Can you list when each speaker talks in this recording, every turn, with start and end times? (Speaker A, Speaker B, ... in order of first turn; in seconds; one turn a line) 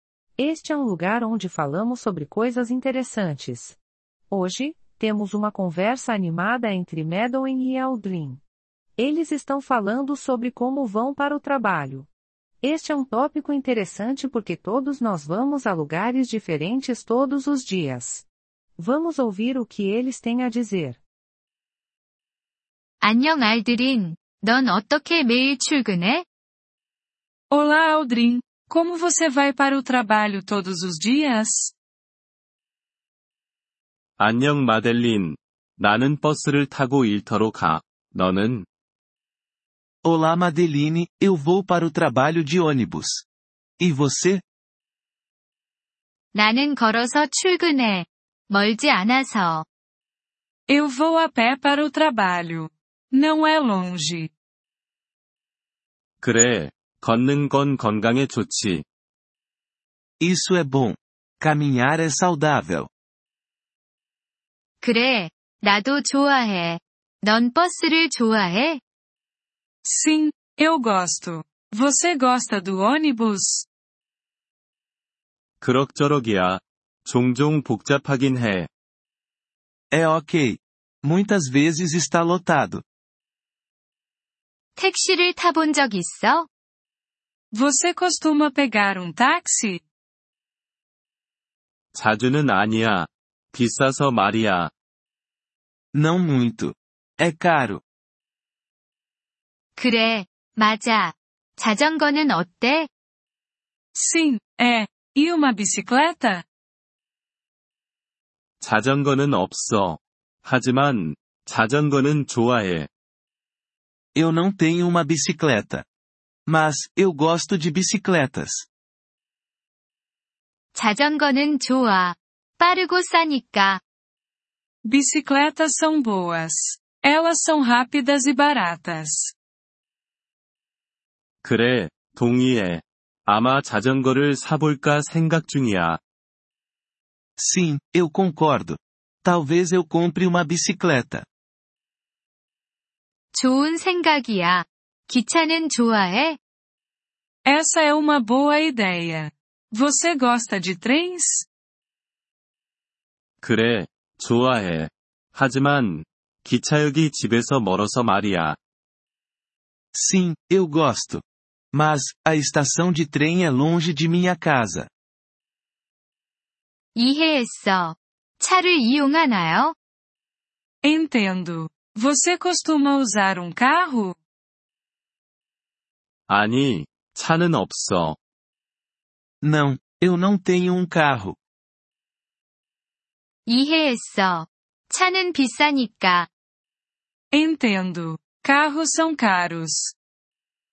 Speaker A: 0.4-3.8
Speaker A: 4.3-8.4
Speaker A: 9.0-12.1
Speaker A: 12.6-18.3
Speaker A: 18.8-21.0
Speaker B: 23.0-26.2
Speaker C: 27.5-31.7
Speaker D: 34.2-38.6
Speaker E: 40.0-43.2
Speaker E: 43.8-44.4
Speaker B: 46.3-49.6
Speaker C: 50.7-54.3
Speaker D: 56.2-58.8
Speaker E: 60.2-62.9
Speaker B: 64.8-68.8
Speaker C: 69.8-73.7
Speaker D: 75.6-78.7
Speaker E: 79.9-82.8
Speaker B: 84.8-86.5
Speaker C: 87.5-89.8
Speaker D: 91.9-94.7
Speaker E: 95.9-97.8
Speaker B: 99.8-102.9
Speaker C: 103.9-106.4
Speaker D: 108.6-112.9
Speaker E: 114.1-115.8
Speaker E: 116.5-118.7
Speaker B: 120.7-123.8
Speaker C: 124.8-129.3
Speaker D: 131.4-136.0
Speaker E: 137.4-141.2
Speaker B: 143.3-146.4
Speaker C: 147.4-151.5
Speaker D: 153.4-158.6
Speaker E: 159.9-164.9
Speaker B: 166.9-169.8
Speaker C: 170.8-174.2
Speaker D: 176.3-178.2
Speaker E: 179.4-181.4
Speaker B: 183.4-186.3
Speaker C: 187.3-189.9